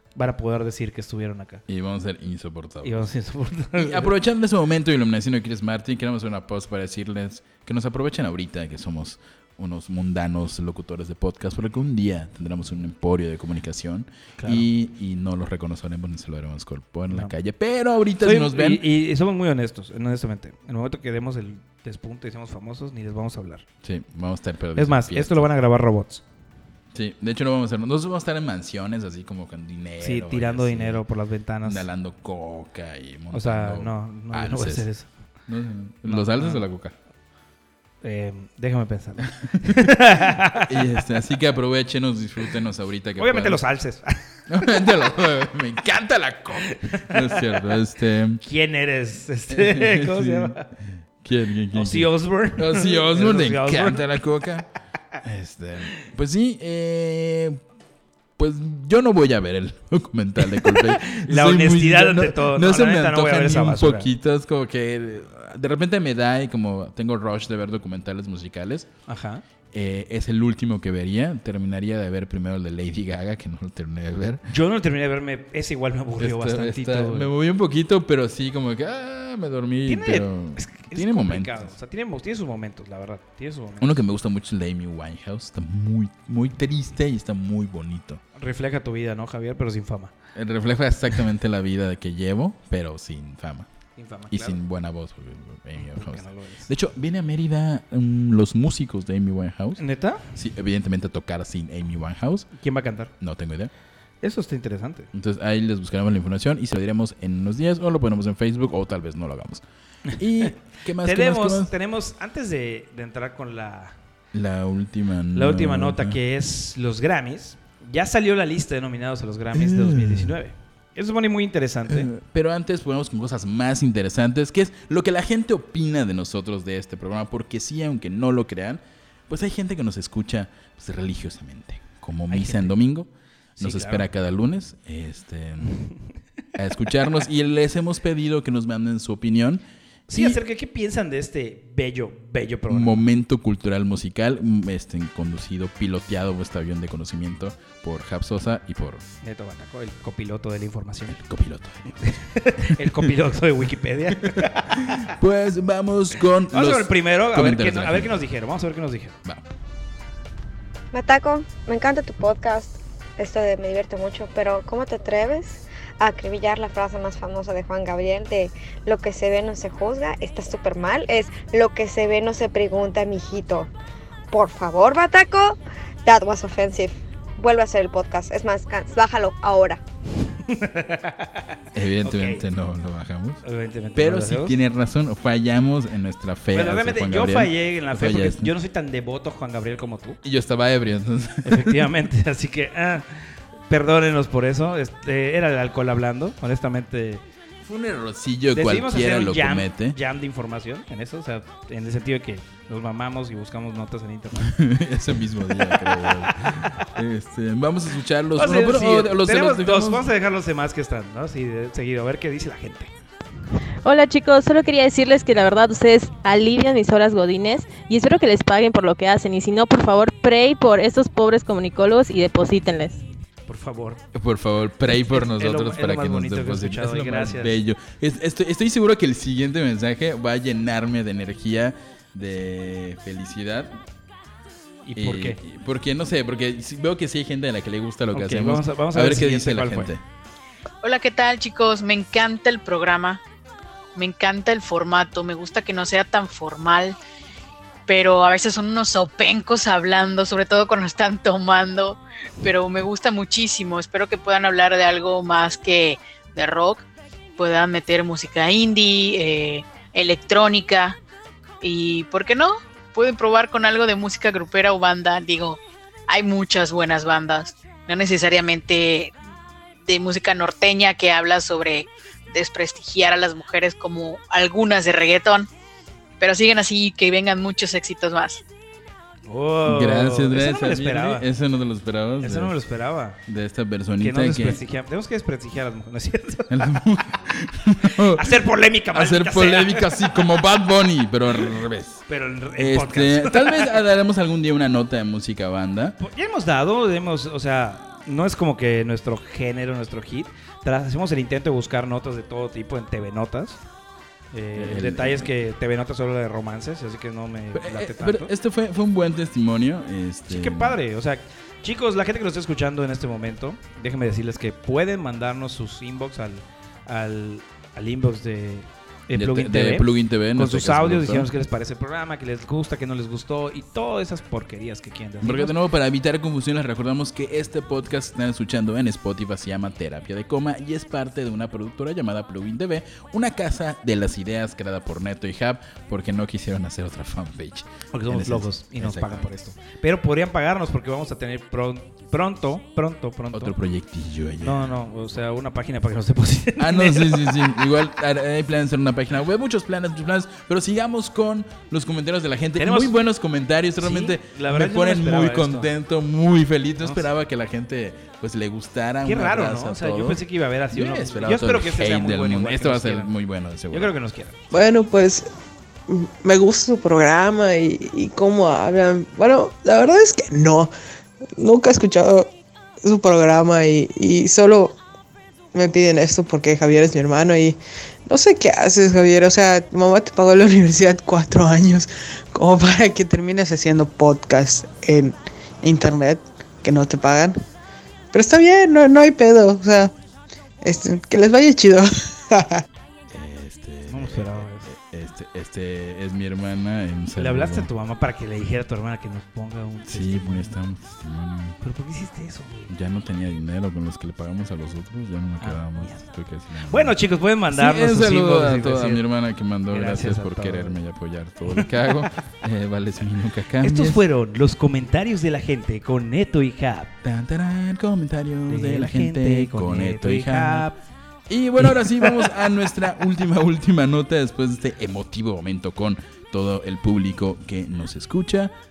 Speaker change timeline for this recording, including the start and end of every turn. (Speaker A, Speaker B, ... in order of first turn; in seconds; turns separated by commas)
Speaker A: 0.2-1.6, Speaker B: 1.7-3.1, Speaker A: 2.8-4.1, Speaker B: 3.8-18.9, Speaker A: 14.4-14.7, Speaker A: 18.2-23.6, Speaker B: 23.8-25.5, Speaker A: 24.8-26.2, Speaker B: 26.9-31.0, Speaker A: 30.0-31.9, Speaker B: 31.6-34.9, Speaker A: 33.3-35.1, Speaker B: 35.5-37.0, Speaker A: 36.1-36.7, Speaker A: 38.0-41.0, Speaker B: 39.4-43.6, Speaker A: 43.2-44.8, Speaker B: 44.5-48.4, Speaker A: 46.6-47.6, Speaker A: 48.4-50.7, Speaker B: 49.5-50.7, Speaker B: 51.2-54.7, Speaker A: 51.7-54.1, Speaker B: 55.2-57.6, Speaker B: 58.4-68.9, Speaker A: 60.5-64.1, Speaker A: 69.1-69.4, Speaker B: 69.7-74.4, Speaker A: 74.5-77.3, Speaker B: 76.2-81.7, Speaker A: 79.9-84.0, Speaker B: 83.8-88.2, Speaker A: 88.4-90.1, Speaker B: 90.3-93.7, Speaker A: 94.0-94.6, Speaker B: 94.3-102.5, Speaker A: 95.8-96.7, Speaker A: 99.8-100.2, Speaker A: 102.6-103.1, Speaker B: 103.2-103.7, Speaker A: 104.2-105.1, Speaker B: 105.1-109.6, Speaker A: 110.1-114.0, Speaker B: 110.2-111.7, Speaker B: 114.3-116.2, Speaker A: 115.3-122.1, Speaker B: 119.5-120.4, Speaker B: 121.9-135.8, Speaker A: 132.3-132.8, Speaker A: 133.6-134.1, Speaker B: 136.6-140.4, Speaker A: 140.1-143.1, Speaker B: 142.7-149.1, Speaker A: 149.2-151.2, Speaker B: 151.1-153.1, Speaker A: 152.0-155.1, Speaker B: 154.2-158.2, Speaker A: 156.5-159.2, Speaker C: 160.9-173.7, Speaker C: 174.3-179.8, Speaker A: 180.3-181.5, Speaker B: 181.8-183.4, Speaker A: 182.0-182.4, Speaker A: 183.4-184.6, Speaker B: 183.9-188.5, Speaker A: 186.5-190.2, Speaker B: 190.2-191.9, Speaker A: 191.4-197.2, Speaker B: 197.6-200.0, Speaker A: 198.5-204.6, Speaker B: 204.4-210.1, Speaker A: 205.5-206.8, Speaker A: 208.4-212.9, Speaker D: 213.8-223.0, Speaker A: 223.5-224.0, Speaker B: 224.1-233.8, Speaker A: 224.9-227.6, Speaker A: 234.8-235.4, Speaker B: 235.0-240.0, Speaker A: 238.1-239.9, Speaker E: 240.8-243.2, Speaker E: 243.9-247.0, Speaker E: 247.9-256.9, Speaker E: 257.4-261.0, Speaker E: 261.6-269.1, Speaker E: 269.8-275.5, Speaker E: 276.2-278.4, Speaker A: 279.3-281.3, Speaker B: 279.6-282.6, Speaker A: 282.2-283.2, Speaker B: 283.3-284.6, Speaker A: 284.0-286.8, Speaker B: 286.5-288.4, Speaker A: 287.9-290.2, Speaker B: 288.9-292.0, Speaker A: 292.1-293.8, Speaker B: 292.6-296.0, Speaker A: 296.0-303.6, Speaker A: 304.3-308.3, Speaker B: 304.6-305.3, Speaker B: 307.5-310.8, Speaker A: 310.3-325.6, Speaker B: 319.1-321.3, Speaker B: 325.2-339.3, Speaker A: 337.9-343.6, Speaker B: 343.3-344.7, Speaker A: 344.4-347.6, Speaker B: 346.6-363.9, Speaker A: 352.6-352.9, Speaker A: 353.8-355.7, Speaker A: 356.8-357.1, Speaker A: 359.0-363.1, Speaker A: 363.7-364.4, Speaker F: 364.5-365.3, Speaker F: 365.9-370.7, Speaker F: 371.4-372.3, Speaker F: 372.8-374.8, Speaker F: 375.5-387.4, Speaker F: 388.1-389.9, Speaker F: 390.6-392.6, Speaker B: 393.1-397.7, Speaker A: 393.9-394.7, Speaker A: 397.2-400.6, Speaker B: 399.9-401.6, Speaker A: 401.6-402.7, Speaker B: 402.7-407.0, Speaker A: 405.4-406.0, Speaker A: 406.7-409.0, Speaker B: 407.5-414.0, Speaker A: 409.7-410.8, Speaker A: 411.5-411.9, Speaker A: 413.6-416.9, Speaker B: 417.0-420.7, Speaker A: 418.5-420.8, Speaker B: 421.3-428.5, Speaker A: 421.6-422.2